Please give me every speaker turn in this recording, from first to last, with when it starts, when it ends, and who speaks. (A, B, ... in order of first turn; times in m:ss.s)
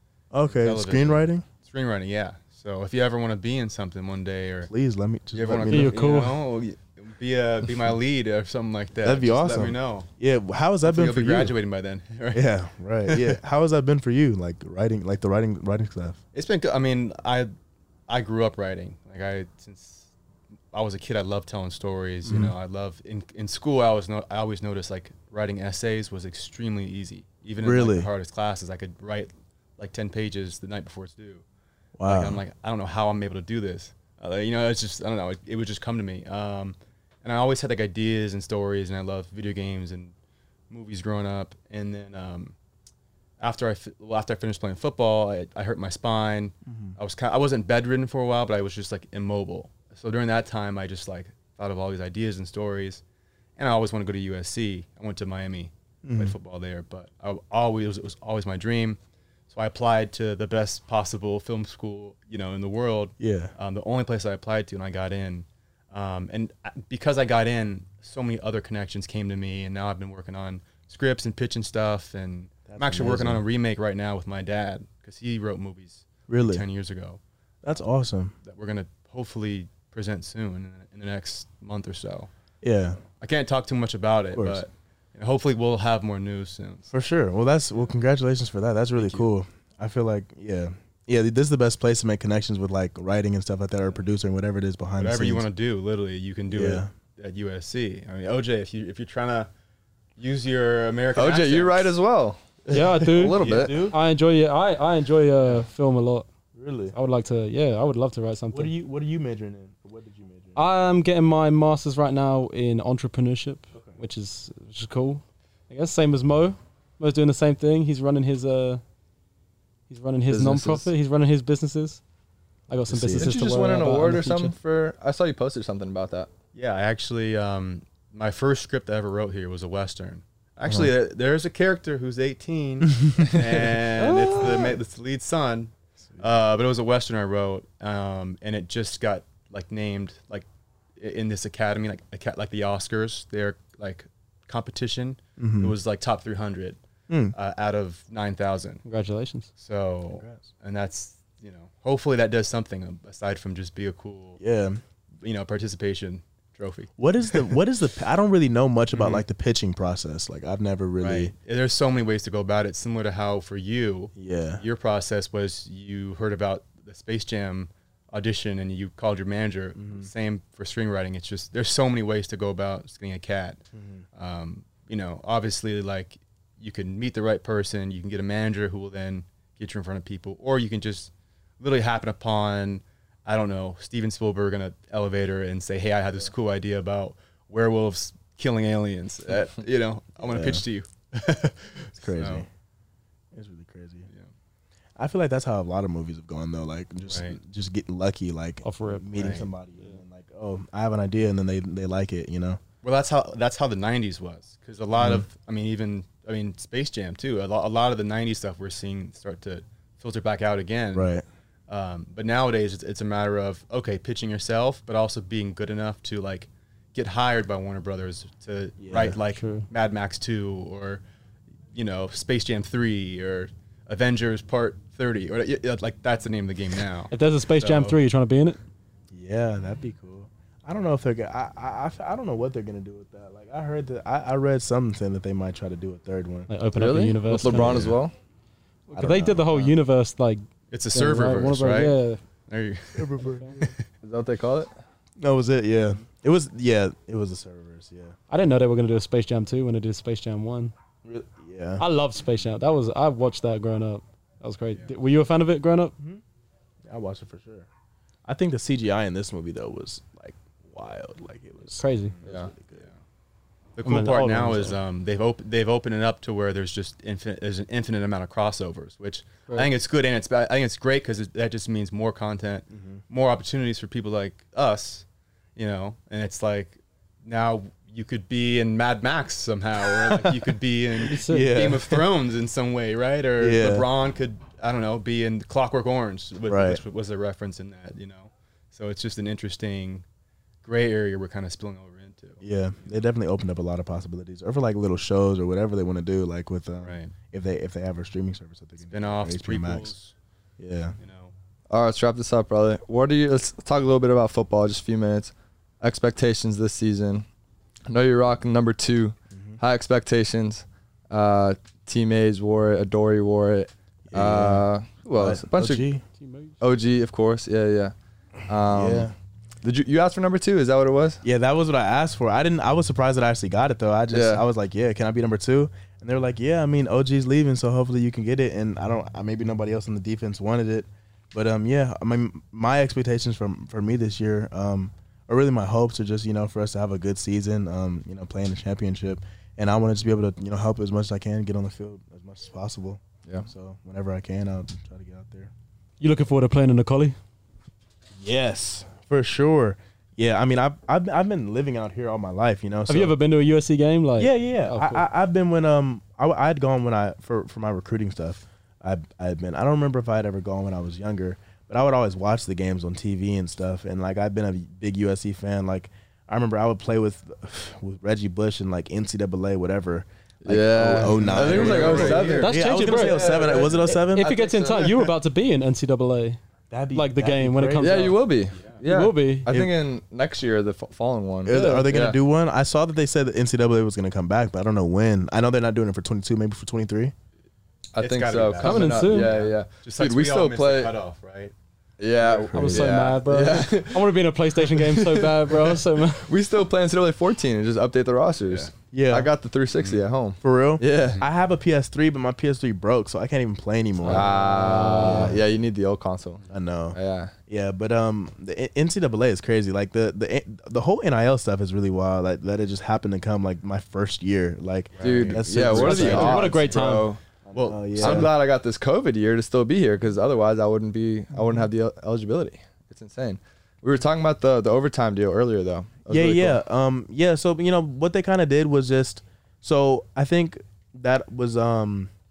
0:00.3-0:01.4 A
0:00.5-0:04.7 B
0:04.6-0:06.0 A
0:05.3-0:10.1 B
0:05.7-0:06.4 C
0:09.0-0:11.6 A
0:10.8-0:12.5 B
0:12.3-0:16.2 A
0:13.1-0:13.4 B
0:16.3-0:17.5 B
0:18.1-0:20.1 B
0:20.7-0:31.4 B
0:22.2-0:22.5 A
0:27.6-0:28.1 A
0:32.0-0:32.4 A
0:32.0-0:40.1 B
0:40.7-0:42.5 B
0:43.4-0:53.0 B
0:46.6-0:47.0 A
0:53.6-0:59.0 B
0:56.0-0:56.4 A
0:59.5-1:17.2 B
1:03.2-1:03.5 A
1:12.7-1:13.4 A
1:16.3-1:16.6 A
1:17.6-1:18.3 A
1:18.4-1:22.3 B
1:22.6-1:23.0 A
1:23.2-1:26.9 B
1:24.3-1:24.6 A
1:26.9-1:35.4 A
1:29.0-1:29.2 B
1:35.0-1:39.5 B
1:36.5-1:36.9 A
1:40.2-1:41.9 B
1:41.2-1:42.4 D
1:42.7-1:43.5 B
1:42.7-1:46.3 C
1:43.0-1:43.8 D
1:43.4-1:44.0 A
1:46.5-1:46.9 A
1:46.9-1:48.7 C
1:48.5-1:50.6 A
1:50.6-1:58.8 C
1:59.9-2:02.0 C
2:00.3-2:00.9 D
2:02.7-2:04.5 C
2:02.9-2:03.3 A
2:03.1-2:06.3 D
2:06.5-2:20.4 B
2:13.2-2:14.3 D
2:21.0-2:26.8 B
2:25.4-2:25.7 A
2:27.1-2:27.3 A
2:27.3-2:28.8 B
2:28.8-2:29.5 C
2:29.6-2:34.4 B
2:30.1-2:30.4 A
2:34.4-2:34.8 A
2:35.2-2:37.6 B
2:37.0-2:41.3 A
2:38.9-2:39.2 B
2:41.0-2:53.6 B
2:44.2-2:44.6 A
2:49.8-2:50.1 A
2:53.7-2:54.0 A
2:54.2-3:12.4 B
3:10.2-3:10.6 A
3:12.0-3:12.5 A
3:13.3-3:14.1 A
3:15.0-3:22.6 A
3:17.1-3:17.4 B
3:18.6-3:19.4 C
3:19.2-3:19.5 B
3:22.8-3:31.1 B
3:25.0-3:25.2 A
3:30.9-3:31.2 A
3:31.7-3:41.0 B
3:38.8-3:39.2 A
3:39.3-3:39.6 C
3:41.7-3:48.0 B
3:47.1-3:48.6 C
3:49.1-3:56.5 A
3:56.5-3:57.9 C
3:56.7-3:58.1 D
3:57.4-3:58.0 A
3:58.9-4:02.2 C
3:58.9-3:59.7 A
4:00.7-4:03.8 B
4:02.9-4:03.7 A
4:03.2-4:03.6 C
4:04.0-4:04.7 D
4:05.2-4:08.2 A
4:08.3-4:10.7 C
4:11.0-4:11.8 A
4:11.8-4:15.9 C
4:16.8-4:17.7 A
4:18.2-4:22.8 A
4:21.7-4:22.1 C
4:22.2-4:22.5 D
4:23.8-4:35.0 B
4:23.8-4:24.8 C
4:32.7-4:33.0 A
4:35.6-4:50.0 B
4:40.0-4:40.4 A
4:41.0-4:41.5 C
4:41.1-4:42.0 A
4:43.4-4:43.9 A
4:46.4-4:46.8 A
4:50.6-4:52.4 B
4:52.4-4:59.9 A
4:56.8-4:57.1 B
4:58.9-5:00.1 B
5:00.6-5:01.0 A
5:01.0-5:01.3 B
5:01.7-5:07.2 D
5:07.9-5:15.9 D
5:14.1-5:16.0 A
5:16.2-5:16.6 C
5:16.6-5:17.9 D
5:18.5-5:19.1 D
5:18.7-5:19.1 A
5:19.6-5:21.2 D
5:21.2-5:45.5 A
5:24.1-5:24.4 D
5:46.0-5:47.2 C
5:48.2-5:53.1 A
5:52.9-5:55.0 C
5:54.2-6:14.3 A
6:10.4-6:15.0 D
6:11.1-6:13.8 B
6:12.2-6:16.4 C
6:16.7-6:18.2 A
6:16.9-6:18.2 C
6:17.8-6:22.2 D
6:18.8-6:19.5 C
6:19.5-6:19.7 A
6:21.4-6:27.1 A
6:21.5-6:21.9 C
6:27.9-6:30.9 D
6:28.0-6:31.5 B
6:28.6-6:29.3 C
6:32.0-6:41.2 D
6:32.5-6:33.0 A
6:32.5-6:36.3 C
6:38.9-6:39.3 A
6:39.7-6:40.0 B
6:40.4-6:44.3 A
6:44.0-6:45.4 C
6:44.0-6:47.3 D
6:45.0-6:45.4 A
6:46.5-6:56.7 A
6:54.9-6:56.4 B
6:55.0-6:57.2 D
6:55.6-6:57.1 C
6:57.5-6:58.3 A
6:57.5-6:58.3 B
6:58.0-7:06.6 D
7:06.1-7:12.1 A